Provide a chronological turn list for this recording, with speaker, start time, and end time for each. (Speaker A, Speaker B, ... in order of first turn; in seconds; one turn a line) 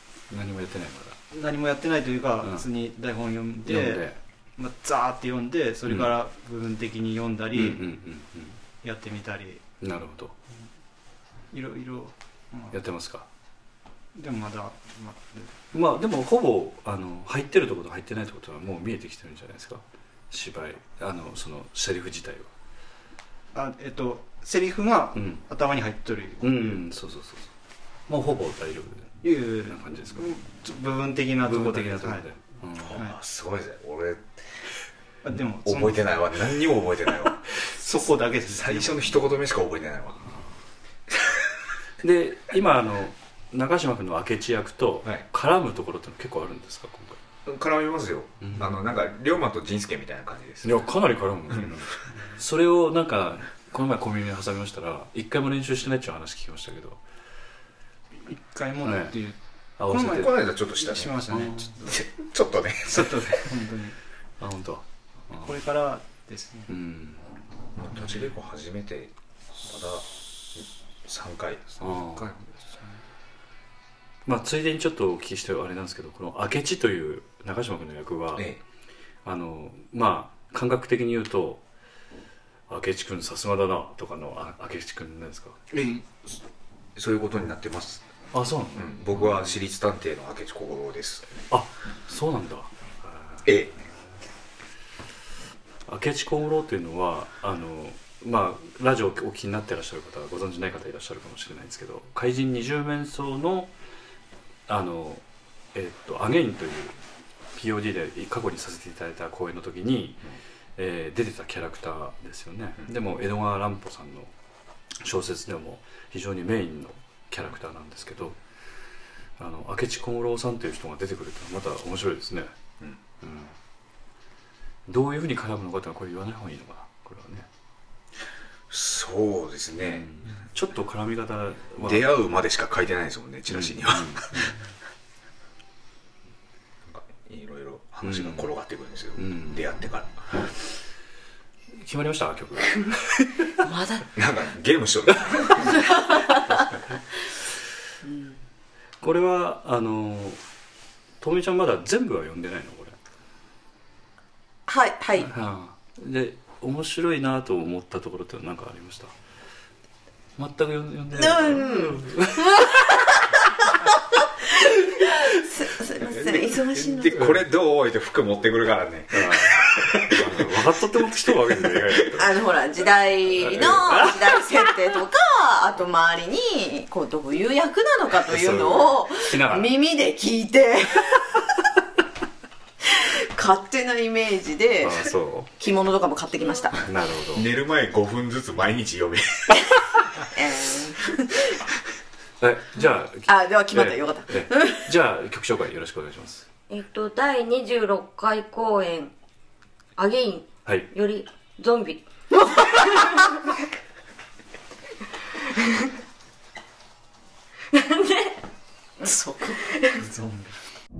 Speaker A: 0.3-1.2
Speaker B: 1.3-7.8
Speaker A: 2.4-2.7
Speaker A: 3.6-4.2
Speaker A: 5.9-6.2
Speaker A: 7.5-8.6
Speaker B: 8.8-9.6
Speaker A: 9.8-10.4
Speaker B: 11.5-12.8
Speaker A: 12.7-13.3
Speaker B: 14.1-15.5
Speaker A: 15.7-22.5
Speaker B: 23.5-26.8
Speaker A: 25.1-25.4
Speaker A: 26.4-27.5
Speaker A: 28.1-30.3
Speaker B: 29.2-32.3
Speaker A: 31.4-33.0
Speaker C: 32.8-34.3
Speaker B: 35.2-36.0
Speaker C: 35.6-37.5
Speaker B: 37.7-39.0
Speaker C: 38.5-40.4
Speaker C: 41.1-41.5
Speaker A: 42.0-47.2
Speaker C: 47.5-50.9
Speaker A: 48.4-48.8
Speaker A: 50.6-57.0
Speaker B: 58.2-59.4
Speaker A: 58.8-59.2
Speaker A: 59.8-60.4
Speaker B: 59.9-61.6
Speaker C: 60.0-63.4
Speaker A: 61.3-61.8
Speaker B: 62.9-64.0
Speaker A: 64.4-65.6
Speaker B: 65.4-66.7
Speaker A: 66.7-67.3
Speaker C: 67.8-72.1
Speaker A: 71.8-72.3
Speaker B: 72.2-72.9
Speaker A: 74.3-78.5
Speaker C: 78.3-78.6
Speaker A: 79.2-81.6
Speaker A: 82.7-85.6
Speaker C: 85.7-86.4
Speaker C: 87.0-88.0
Speaker A: 88.3-89.6
Speaker C: 88.7-91.4
Speaker A: 91.5-93.6
Speaker C: 93.4-93.7
Speaker A: 95.9-103.7
Speaker A: 104.7-107.0
Speaker A: 107.5-114.3
Speaker A: 115.0-118.4
Speaker A: 119.4-122.5
Speaker A: 123.2-123.5
Speaker A: 124.9-127.5
Speaker C: 128.7-130.1
Speaker A: 129.8-132.1
Speaker C: 131.8-134.5
Speaker A: 133.5-134.6
Speaker C: 136.9-140.5
Speaker A: 138.0-138.5
Speaker A: 139.2-139.6
Speaker A: 141.8-143.6
Speaker D: 143.6-144.1
Speaker C: 144.1-145.8
Speaker A: 145.3-145.6
Speaker D: 145.6-146.5
Speaker A: 146.3-147.0
Speaker D: 148.0-148.4
Speaker A: 149.0-150.4
Speaker A: 151.2-153.0
Speaker D: 154.7-155.3
Speaker A: 155.2-159.2
Speaker A: 160.4-162.6
Speaker D: 161.1-167.2
Speaker C: 166.0-170.6
Speaker A: 167.1-167.4
Speaker A: 169.1-172.4
Speaker D: 172.2-181.5
Speaker A: 173.4-174.5
Speaker A: 178.2-179.7
Speaker D: 182.8-186.9
Speaker A: 184.8-185.5
Speaker A: 186.7-187.5
Speaker C: 187.3-189.8
Speaker D: 190.3-191.6
Speaker A: 192.4-196.5
Speaker D: 193.3-194.9
Speaker E: 196.7-199.1
Speaker E: 200.0-202.1
Speaker E: 202.6-203.3
Speaker E: 207.7-208.4
Speaker D: 209.0-209.6
Speaker E: 209.7-210.0
Speaker B: 210.0-210.6